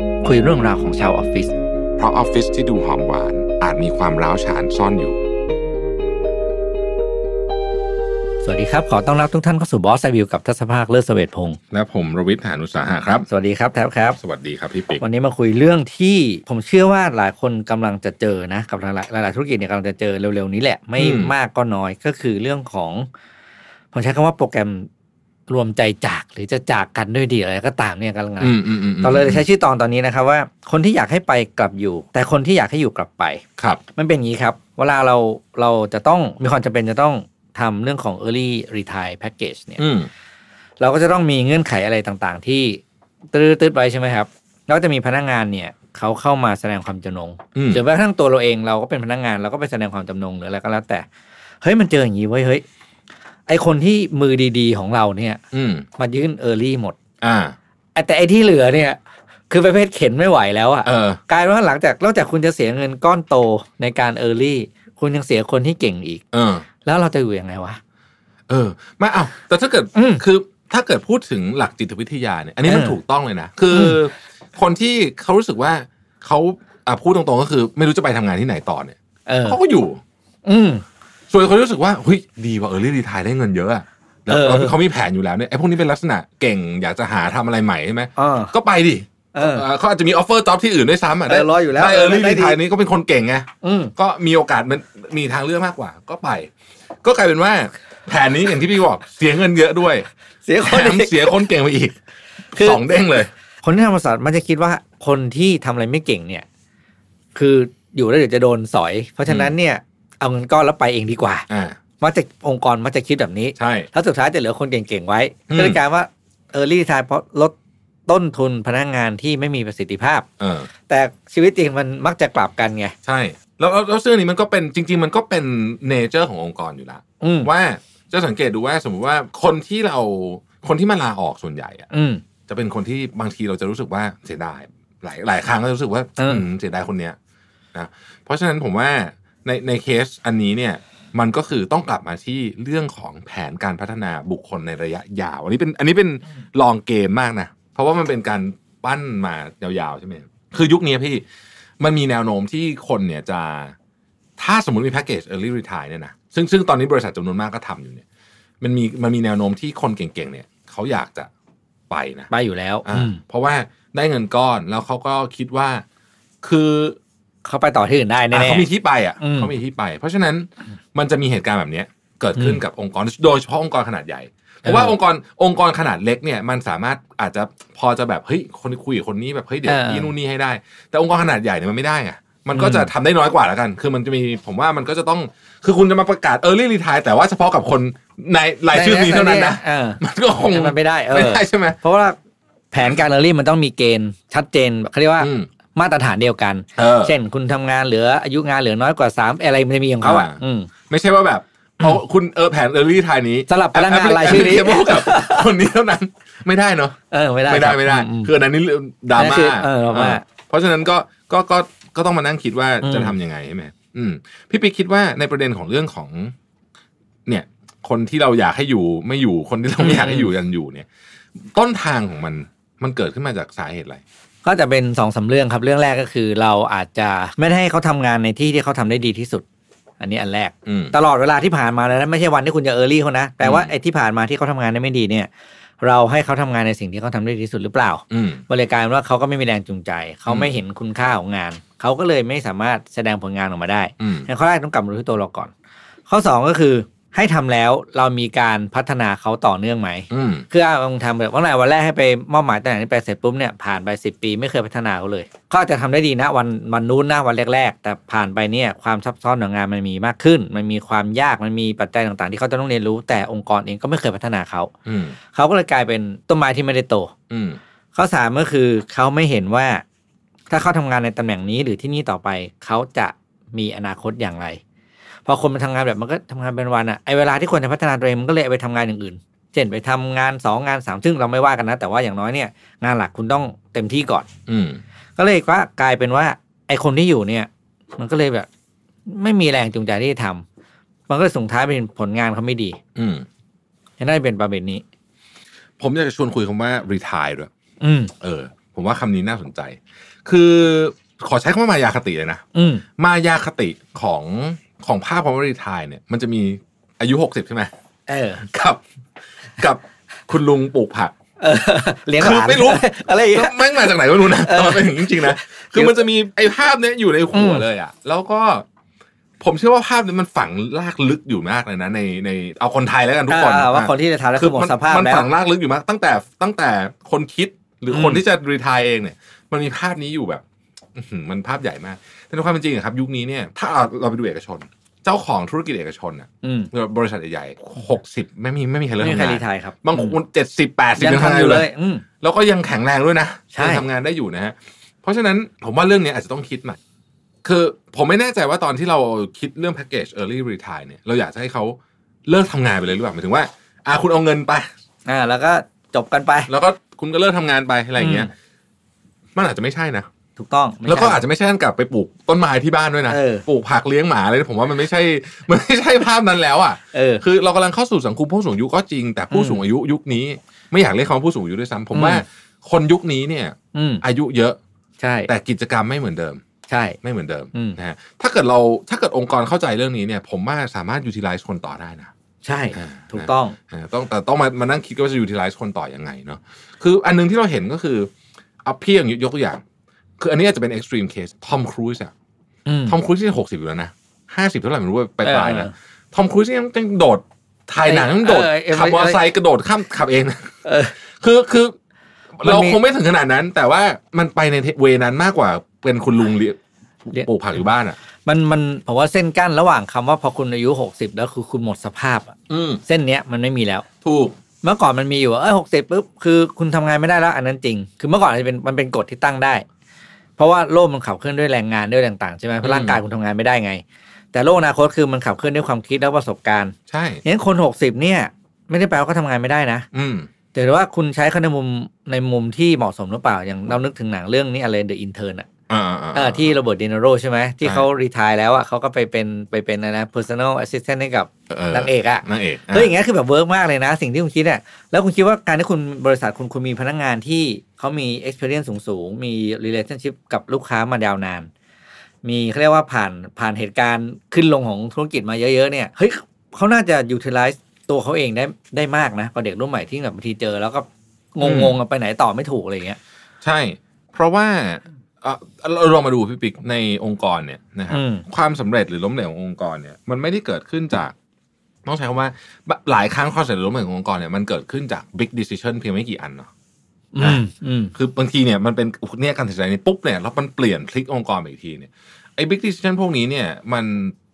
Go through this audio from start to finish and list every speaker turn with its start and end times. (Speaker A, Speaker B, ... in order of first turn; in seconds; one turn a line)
Speaker A: 0.2-1.5
Speaker B: 2.0-5.2
Speaker A: 8.4-11.6
Speaker B: 11.7-13.2
Speaker A: 13.3-14.2
Speaker B: 14.1-15.0
Speaker A: 15.0-23.1
Speaker B: 21.0-21.3
Speaker A: 23.9-24.9
Speaker A: 25.5-33.4
Speaker B: 28.4-29.4
Speaker A: 33.9-39.8
Speaker B: 39.8-40.1
Speaker A: 40.8-42.8
Speaker A: 43.3-51.0
Speaker B: 47.5-47.8
Speaker A: 51.6-52.6
Speaker A: 53.5-55.4
Speaker B: 55.5-55.9
Speaker A: 56.0-57.0
Speaker B: 57.2-57.5
Speaker A: 57.9-59.0
Speaker A: 59.5-66.2
Speaker B: 60.8-61.2
Speaker B: 66.3-66.6
Speaker A: 66.8-67.8
Speaker B: 68.5-80.0
Speaker A: 69.9-70.2
Speaker A: 72.6-73.0
Speaker A: 73.7-74.0
Speaker A: 79.3-79.6
Speaker A: 80.4-80.8
Speaker B: 81.3-96.5
Speaker A: 84.3-84.8
Speaker A: 88.2-88.5
Speaker A: 89.3-89.7
Speaker A: 91.3-92.6
Speaker A: 93.6-93.9
Speaker B: 97.0-100.1
Speaker A: 100.4-101.4
Speaker B: 100.6-102.0
Speaker A: 102.5-103.1
Speaker B: 102.5-103.3
Speaker A: 103.6-106.5
Speaker A: 107.3-111.5
Speaker B: 109.2-109.5
Speaker B: 111.5-111.8
Speaker A: 112.0-117.5
Speaker B: 113.6-113.9
Speaker B: 115.5-115.8
Speaker A: 118.1-120.2
Speaker B: 120.4-120.7
Speaker A: 120.9-122.9
Speaker B: 123.0-131.9
Speaker A: 127.2-127.5
Speaker A: 131.9-132.2
Speaker B: 132.5-137.2
Speaker A: 136.2-136.4
Speaker B: 137.7-151.2
Speaker B: 151.8-153.7
Speaker B: 154.4-158.0
Speaker B: 158.6-161.3
Speaker B: 161.9-162.3
Speaker A: 162.3-163.2
Speaker B: 162.8-165.8
Speaker B: 166.4-167.0
Speaker A: 167.4-168.7
Speaker B: 168.3-191.8
Speaker A: 169.2-169.5
Speaker A: 172.3-172.6
Speaker A: 174.6-174.9
Speaker A: 179.6-180.1
Speaker A: 182.5-182.9
Speaker A: 188.7-192.2
Speaker A: 192.7-200.7
Speaker B: 195.2-195.5
Speaker B: 196.8-197.2
Speaker B: 200.0-216.3
Speaker A: 203.5-205.5
Speaker A: 207.1-208.3
Speaker A: 209.1-210.2
Speaker A: 212.8-213.2
Speaker B: 217.3-220.9
Speaker A: 219.8-220.3
Speaker B: 221.4-224.0
Speaker A: 224.4-229.4
Speaker A: 230.0-235.3
Speaker B: 230.7-230.9
Speaker B: 233.4-233.7
Speaker A: 235.8-245.5
Speaker B: 238.1-238.4
Speaker B: 240.3-240.5
Speaker B: 244.0-244.3
Speaker A: 246.1-264.7
Speaker B: 250.1-250.4
Speaker B: 264.9-265.2
Speaker A: 265.3-267.1
Speaker B: 267.3-267.6
Speaker A: 267.9-269.8
Speaker A: 270.5-274.6
Speaker A: 275.2-284.3
Speaker B: 284.5-284.8
Speaker A: 285.2-288.5
Speaker A: 289.1-290.4
Speaker A: 291.1-292.8
Speaker B: 292.9-293.2
Speaker A: 294.0-294.8
Speaker B: 295.8-297.5
Speaker A: 297.8-298.1
Speaker B: 298.2-302.4
Speaker A: 302.5-302.8
Speaker B: 303.0-307.7
Speaker A: 308.1-308.4
Speaker B: 308.4-308.8
Speaker B: 309.6-311.1
Speaker A: 311.4-316.0
Speaker B: 312.1-318.6
Speaker A: 317.3-317.6
Speaker B: 319.4-330.4
Speaker A: 323.3-325.3
Speaker A: 327.9-328.2
Speaker B: 330.9-341.7
Speaker A: 336.4-336.7
Speaker A: 339.0-340.1
Speaker A: 340.9-342.0
Speaker B: 342.2-346.8
Speaker A: 343.5-343.8
Speaker B: 347.4-354.7
Speaker A: 355.1-356.5
Speaker B: 356.5-358.3
Speaker A: 358.0-358.3
Speaker B: 359.4-360.1
Speaker A: 360.4-361.2
Speaker B: 360.9-374.6
Speaker A: 363.1-363.4
Speaker A: 366.9-367.2
Speaker A: 369.3-369.6
Speaker A: 371.9-372.2
Speaker A: 373.7-374.0
Speaker A: 375.0-375.3
Speaker B: 375.3-376.4
Speaker A: 376.7-377.0
Speaker B: 377.0-382.1
Speaker A: 377.5-377.8
Speaker A: 382.4-383.6
Speaker B: 382.7-388.1
Speaker B: 388.6-389.6
Speaker B: 390.2-392.1
Speaker A: 392.6-393.0
Speaker B: 392.9-400.5
Speaker A: 395.2-395.7
Speaker A: 397.8-399.2
Speaker A: 400.6-400.9
Speaker B: 401.2-401.7
Speaker B: 402.4-408.0
Speaker A: 402.4-402.8
Speaker A: 408.2-413.8
Speaker B: 412.5-412.8
Speaker B: 414.0-414.4
Speaker A: 414.6-419.6
Speaker A: 420.4-429.9
Speaker B: 422.6-423.0
Speaker B: 426.9-427.2
Speaker B: 429.9-430.3
Speaker A: 430.5-435.5
Speaker B: 435.7-436.6
Speaker A: 436.1-451.5
Speaker B: 441.5-442.9
Speaker A: 452.2-463.0
Speaker B: 461.4-461.8
Speaker B: 463.4-471.1
Speaker A: 467.9-468.2
Speaker B: 471.8-476.5
Speaker A: 477.1-477.9
Speaker B: 477.9-484.1